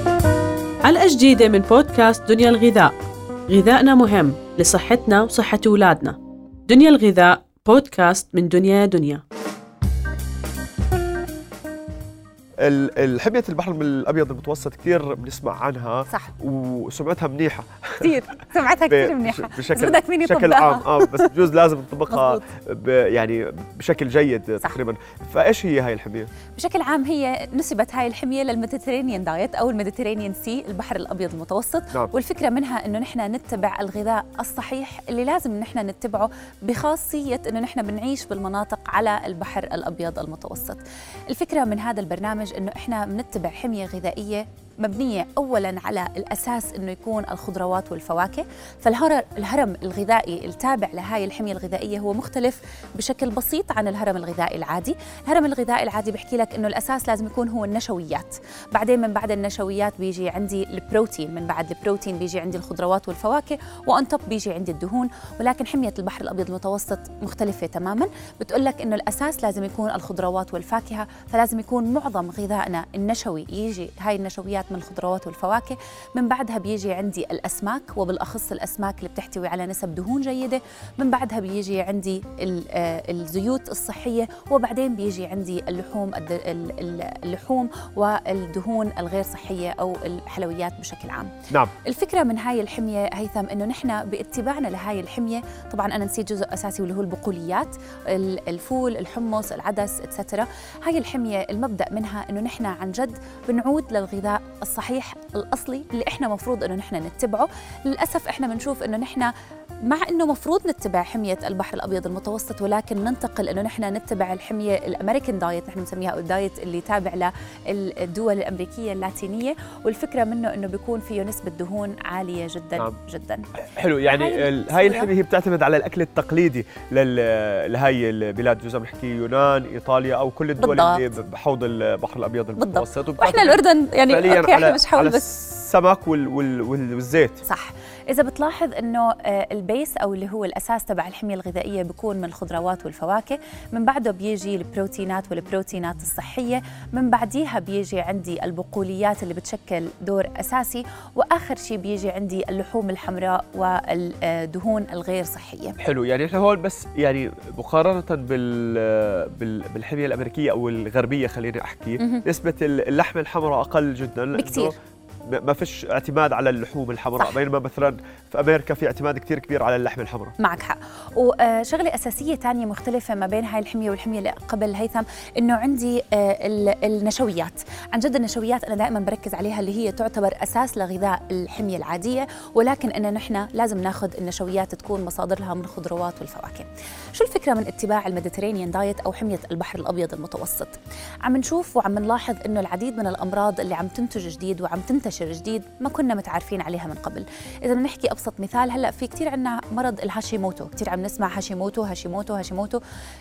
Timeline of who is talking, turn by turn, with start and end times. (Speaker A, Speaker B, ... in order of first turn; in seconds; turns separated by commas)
Speaker A: 0.8-9.2, Speaker B: 12.6-18.2, Speaker C: 18.0-21.3, Speaker B: 18.9-26.3, Speaker C: 22.1-22.4, Speaker C: 26.6-109.3, Speaker C: 109.8-123.5, Speaker B: 123.6-137.4, Speaker C: 124.0-125.1, Speaker C: 130.6-131.1, Speaker C: 132.6-135.2, Speaker C: 137.4-155.8, Speaker B: 155.8-164.8, Speaker C: 164.3-164.7, Speaker B: 165.3-170.3, Speaker C: 170.4-202.8